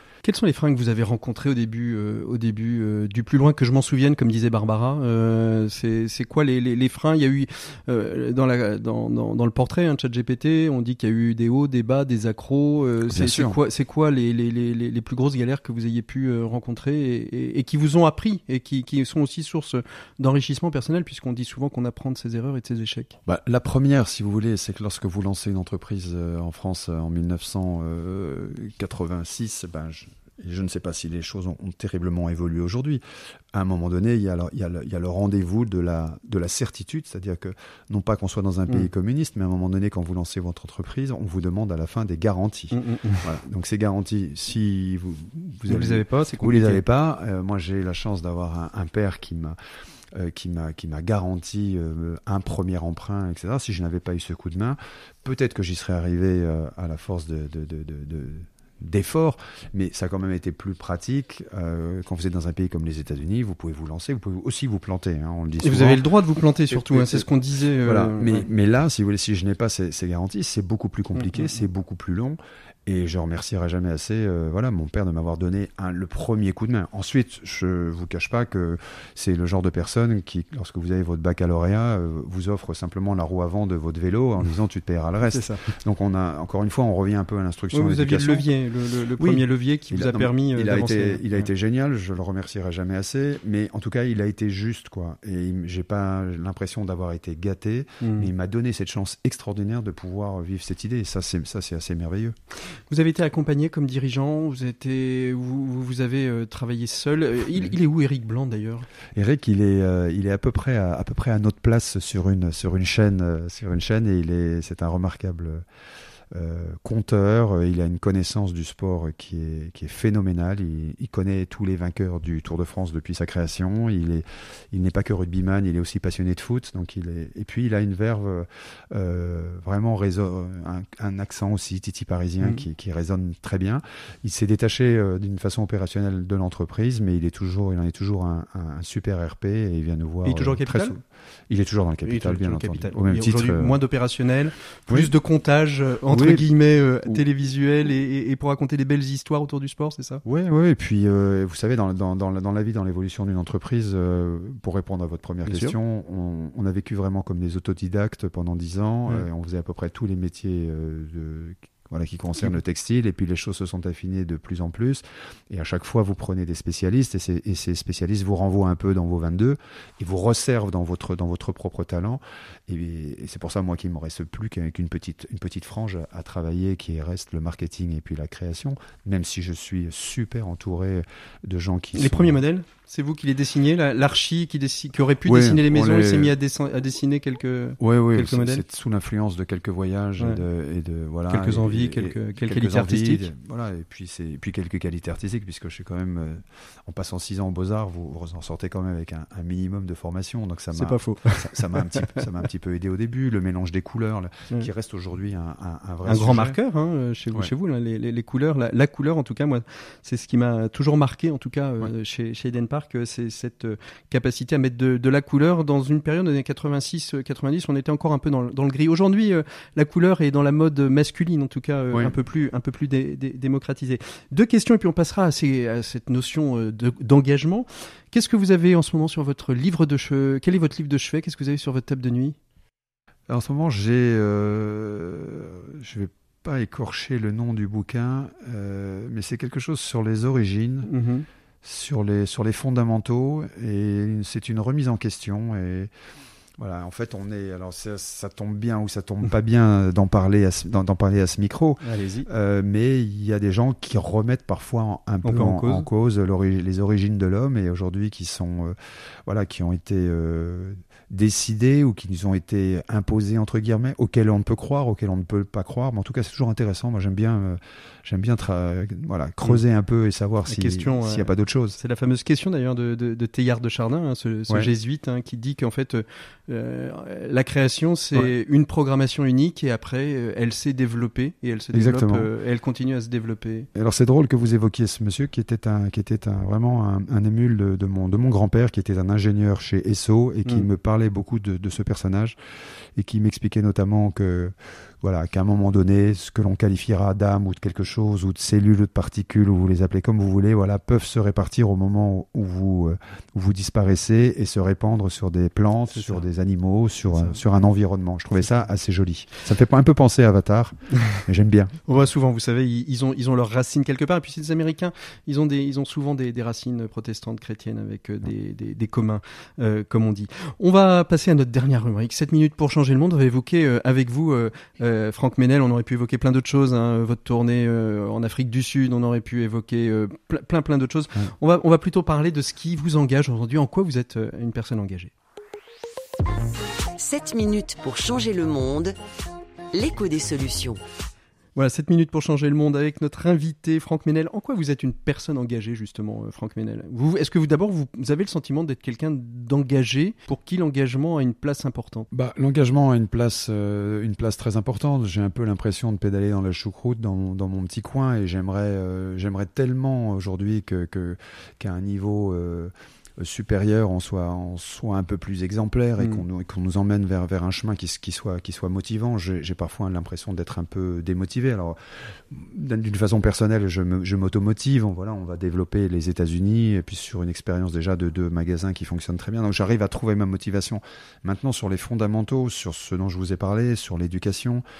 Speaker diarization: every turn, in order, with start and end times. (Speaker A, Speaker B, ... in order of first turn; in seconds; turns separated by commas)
Speaker A: 0.2-23.1, Speaker B: 13.1-13.6, Speaker B: 23.2-49.6, Speaker A: 42.7-43.2, Speaker A: 45.7-46.8, Speaker B: 50.1-66.0, Speaker A: 65.6-68.5, Speaker B: 66.7-67.3, Speaker B: 67.8-88.5, Speaker A: 71.2-71.5, Speaker A: 85.3-85.6, Speaker A: 87.7-91.5, Speaker B: 89.2-102.3, Speaker A: 98.0-98.3, Speaker A: 102.9-108.9, Speaker B: 109.1-115.6, Speaker B: 116.3-143.8, Speaker A: 140.2-140.9, Speaker A: 142.0-150.2, Speaker B: 146.1-146.5, Speaker B: 150.2-182.4, Speaker A: 155.4-155.8, Speaker A: 181.9-188.6, Speaker B: 185.2-186.3, Speaker B: 187.8-206.6, Speaker A: 191.3-193.3, Speaker A: 200.7-202.2, Speaker A: 206.1-232.3, Speaker B: 233.3-240.9, Speaker A: 240.8-241.2, Speaker B: 241.6-245.9, Speaker B: 246.6-271.8, Speaker A: 251.8-252.3, Speaker A: 255.2-255.9, Speaker A: 270.5-283.7, Speaker B: 281.7-282.3, Speaker B: 283.7-292.4, Speaker B: 292.9-311.7, Speaker A: 305.9-306.2, Speaker A: 311.9-335.1, Speaker C: 336.9-339.0, Speaker C: 339.7-340.8, Speaker A: 341.6-352.1, Speaker B: 352.1-384.6